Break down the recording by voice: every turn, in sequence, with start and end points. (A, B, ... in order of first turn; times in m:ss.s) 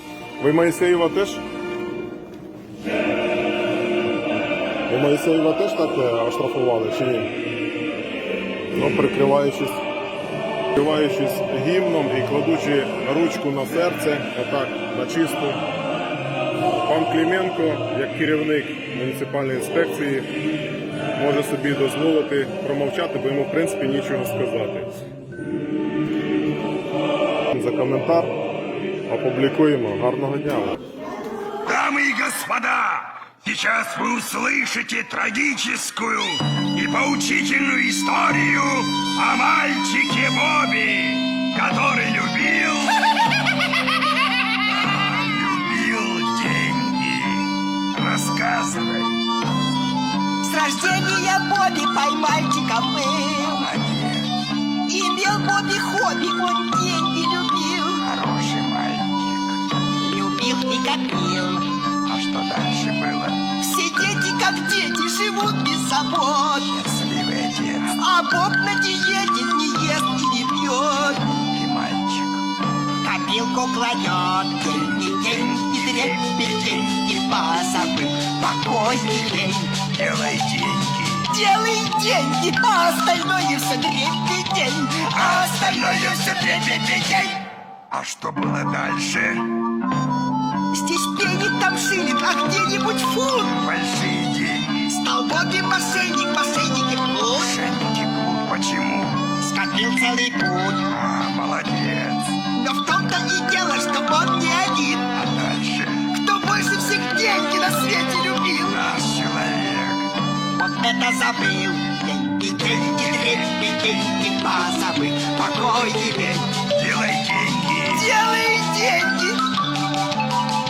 0:00.4-0:01.4 A
0:04.9-0:07.3 A
0:08.7-0:09.8 A
0:10.7-0:15.6 A
0:16.8-0:20.3 A
0:21.1-0:24.9 A
0:27.5-0:28.3 A
0:29.1-0:30.8 A
0:31.6-0:43.0 B
0:44.7-0:49.2 B
0:50.4-0:53.7 C
0:53.4-0:54.3 B
0:54.9-0:58.0 C
0:58.0-0:59.6 B
1:00.0-1:01.7 C
1:02.0-1:03.5 B
1:03.6-1:06.7 C
1:06.7-1:08.0 B
1:07.9-1:11.4 C
1:11.5-1:12.4 B
1:13.0-1:19.8 C
1:14.8-1:16.9 B
1:19.1-1:21.3 B
1:21.3-1:27.4 C
1:25.1-1:27.2 B
1:27.9-1:29.5 B
1:30.7-1:33.6 C
1:33.5-1:35.0 B
1:34.9-1:37.5 C
1:37.3-1:39.4 B
1:39.4-1:40.8 C
1:40.9-1:42.4 B
1:42.5-1:45.1 C
1:45.1-1:46.1 B
1:46.1-1:48.8 C
1:48.7-1:50.1 B
1:50.6-1:56.5 C
1:52.6-1:54.0 B
1:56.6-1:58.1 B
1:57.9-1:59.4 C